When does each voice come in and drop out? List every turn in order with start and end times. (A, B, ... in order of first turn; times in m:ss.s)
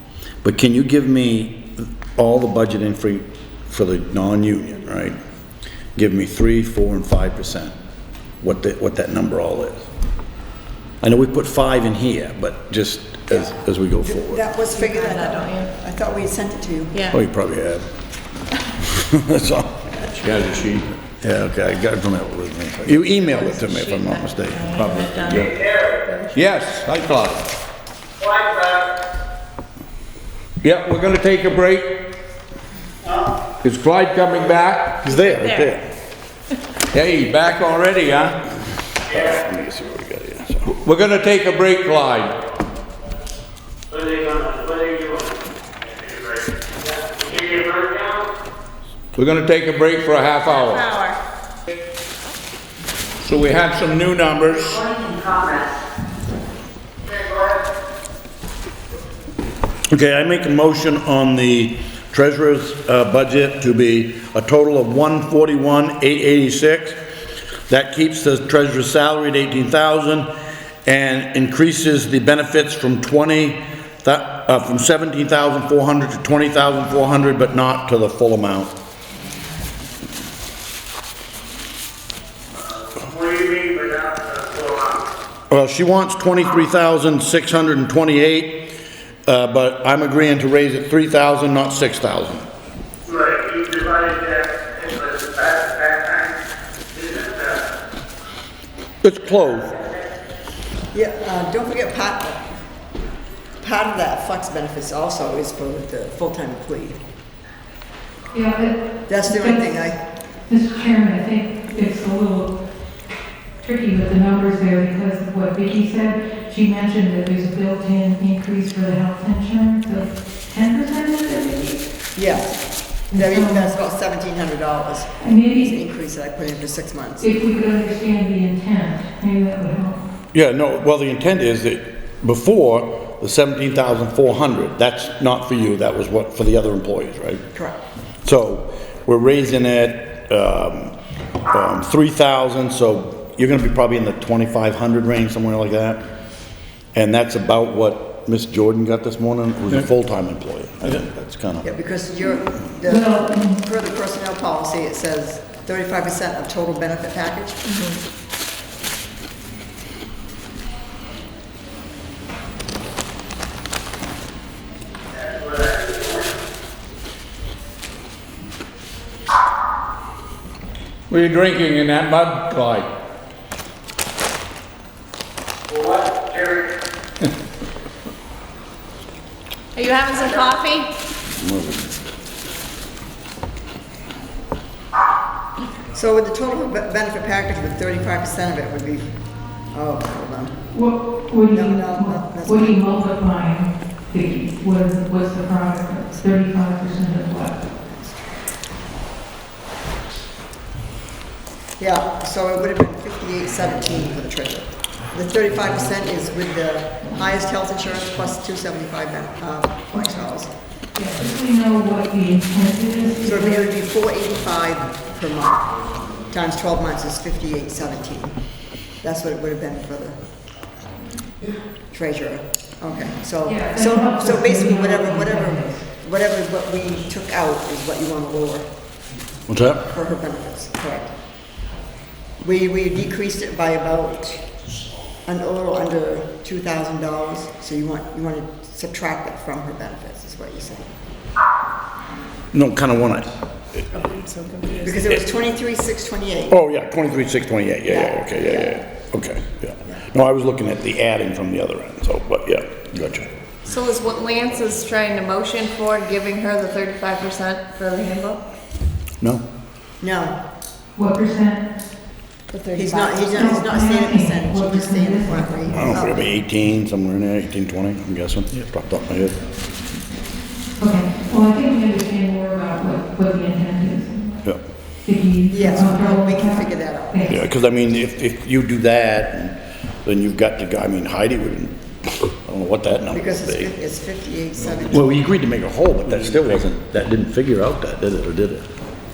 0:00.4-0:05.2 A
0:06.0-0:07.7 A
0:08.4-0:09.8 A
0:11.0-0:14.4 A
0:13.3-0:17.0 B
0:14.8-0:15.7 C
0:16.9-0:17.2 C
0:17.1-0:17.9 A
0:18.8-0:19.8 A
0:20.2-0:20.8 D
0:21.2-0:25.3 A
0:23.2-0:26.3 C
0:24.8-0:25.6 D
0:26.3-0:27.4 D
0:28.2-0:28.9 E
0:30.6-0:32.0 D
0:33.6-0:35.0 D
0:35.0-0:35.8 A
0:35.1-0:35.8 C
0:36.9-0:38.4 D
0:39.1-0:40.7 A
0:40.7-0:42.3 D
0:43.9-0:48.3 E
0:49.1-0:50.9 D
0:50.4-0:51.2 C
0:53.2-0:54.9 D
0:54.9-0:55.6 C
0:59.9-1:07.0 A
1:07.7-1:10.3 A
1:10.8-1:18.7 A
1:22.9-1:25.0 E
1:25.5-1:28.7 A
1:29.2-1:32.4 A
1:33.1-1:36.4 E
1:36.9-1:37.7 E
1:39.0-1:39.8 A
1:40.9-1:42.6 B
1:43.6-1:47.0 B
1:48.3-1:49.7 F
1:49.1-1:50.0 B
1:50.4-1:52.5 F
1:53.6-2:01.8 F
2:02.1-2:07.3 B
2:03.1-2:03.7 F
2:05.2-2:05.7 F
2:07.2-2:10.0 F
2:10.3-2:17.4 A
2:18.2-2:20.9 A
2:21.5-2:26.0 A
2:26.9-2:31.7 A
2:31.6-2:37.7 B
2:32.9-2:33.6 F
2:45.2-2:46.2 E
2:51.1-2:52.9 D
2:55.7-2:56.7 E
2:59.7-3:00.9 C
3:01.4-3:01.9 A
3:05.9-3:10.6 B
3:10.7-3:17.6 F
3:11.5-3:12.8 B
3:17.8-3:18.4 B
3:21.8-3:30.5 B
3:30.9-3:33.7 F
3:33.2-3:38.4 B
3:39.0-3:40.2 B
3:41.9-3:48.7 B
3:43.4-3:45.8 F
3:49.5-3:49.8 A
3:49.8-3:51.1 B
3:52.4-3:54.4 B
3:55.2-4:00.9 B
4:02.5-4:03.8 A
4:03.9-4:05.2 C
4:04.8-4:06.6 B
4:06.5-4:13.3 A
4:07.9-4:08.7 B
4:13.6-4:18.4 C
4:20.0-4:20.4 B
4:21.0-4:21.7 F
4:22.5-4:23.6 C
4:22.7-4:26.2 B
4:23.3-4:25.7 F
4:25.7-4:29.4 A
4:30.8-4:34.5 F
4:35.0-4:37.4 F
4:35.5-4:37.5 B
4:37.3-4:43.7 A
4:43.1-4:45.1 B
4:44.9-4:48.7 A